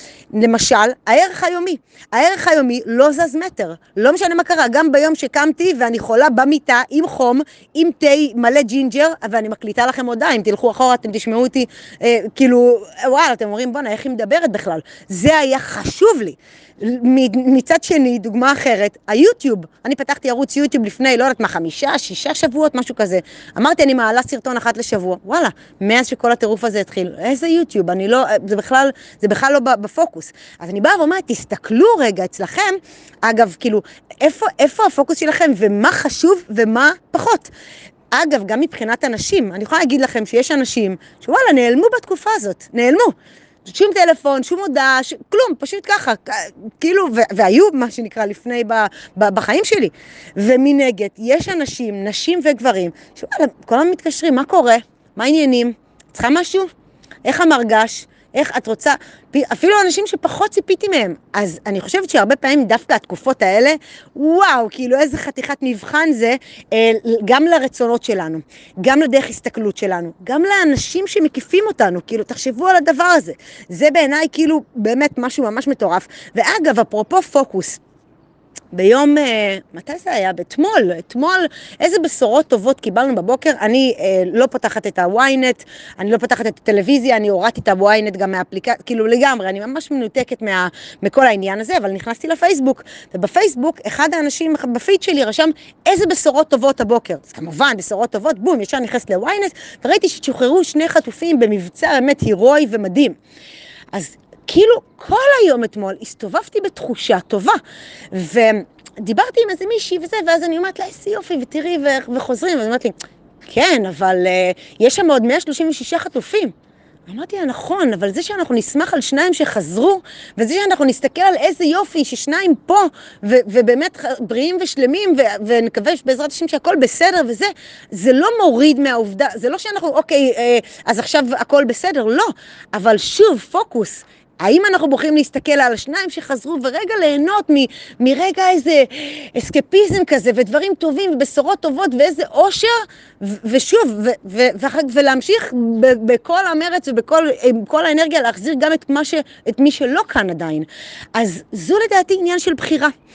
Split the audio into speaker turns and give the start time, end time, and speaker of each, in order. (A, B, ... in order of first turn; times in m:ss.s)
0:00.3-0:37.5 A
0:38.1-0:43.1 A
0:43.6-0:56.7 A
0:57.2-1:17.8 A
1:18.7-1:43.2 A
1:43.9-1:47.6 A
1:48.1-1:52.9 A
1:53.4-1:56.5 A
1:57.1-2:32.9 A